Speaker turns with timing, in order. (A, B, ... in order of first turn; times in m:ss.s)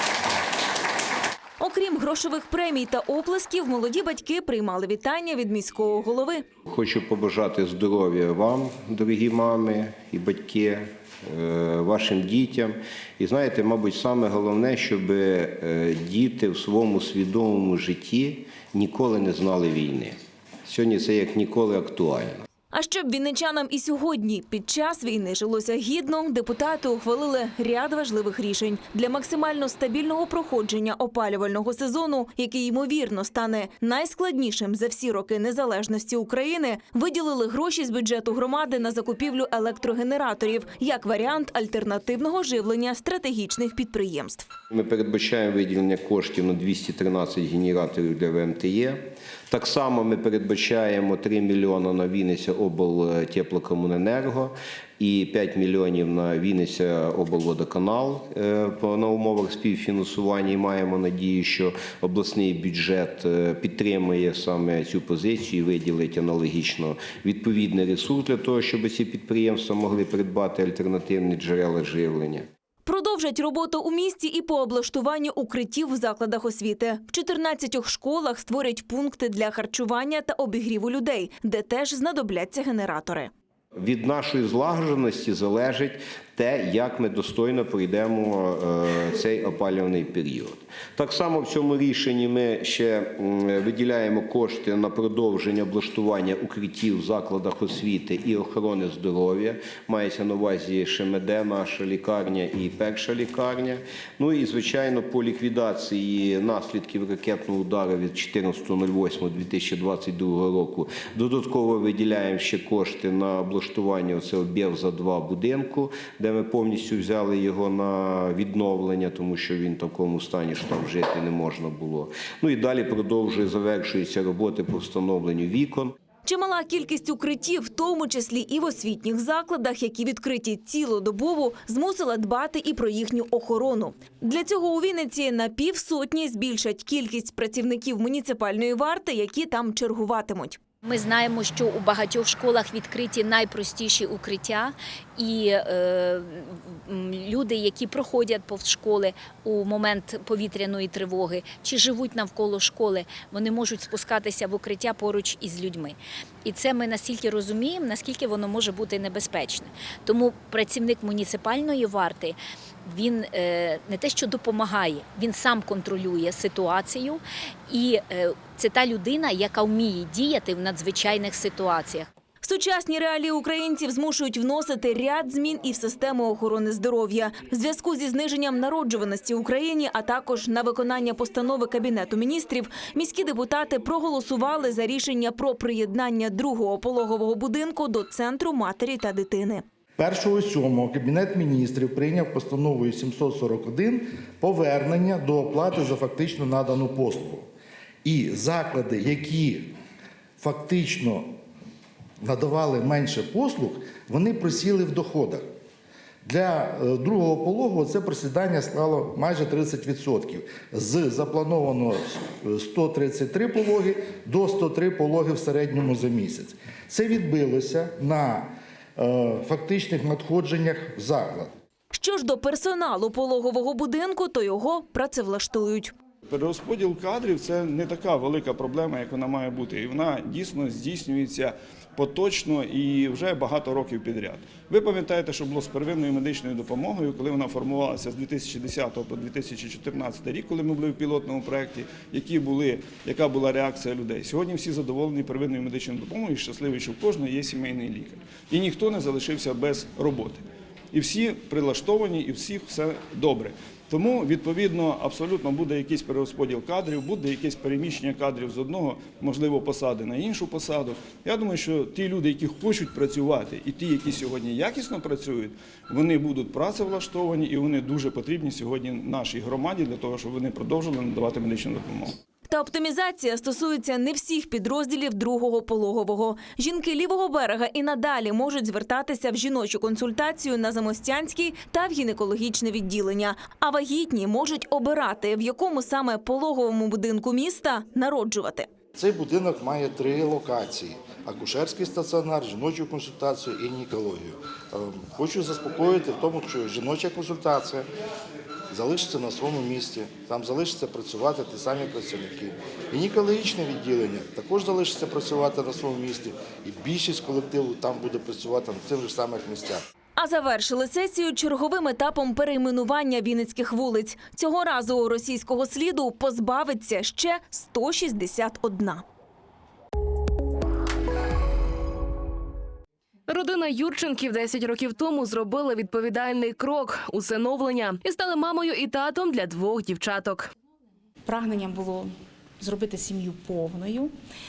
0:01.6-0:06.3 A
0:06.7-0:22.4 B
0:22.7-0:44.4 A
0:44.7-1:12.5 B
1:12.9-1:23.3 A
1:23.8-2:06.0 B
2:06.3-2:20.5 A
2:20.8-2:52.1 C
2:52.5-3:09.6 A
3:10.0-3:17.4 D
3:18.0-3:19.7 D
3:20.4-3:21.3 D
3:22.2-3:25.4 D
3:26.2-3:41.5 D
3:42.0-3:45.9 A
3:46.3-4:32.1 E
4:32.5-4:48.6 A
4:49.0-4:57.8 D
4:58.7-5:09.8 D
5:10.2-5:19.0 A
5:23.3-5:30.5 F
5:31.2-5:34.1 G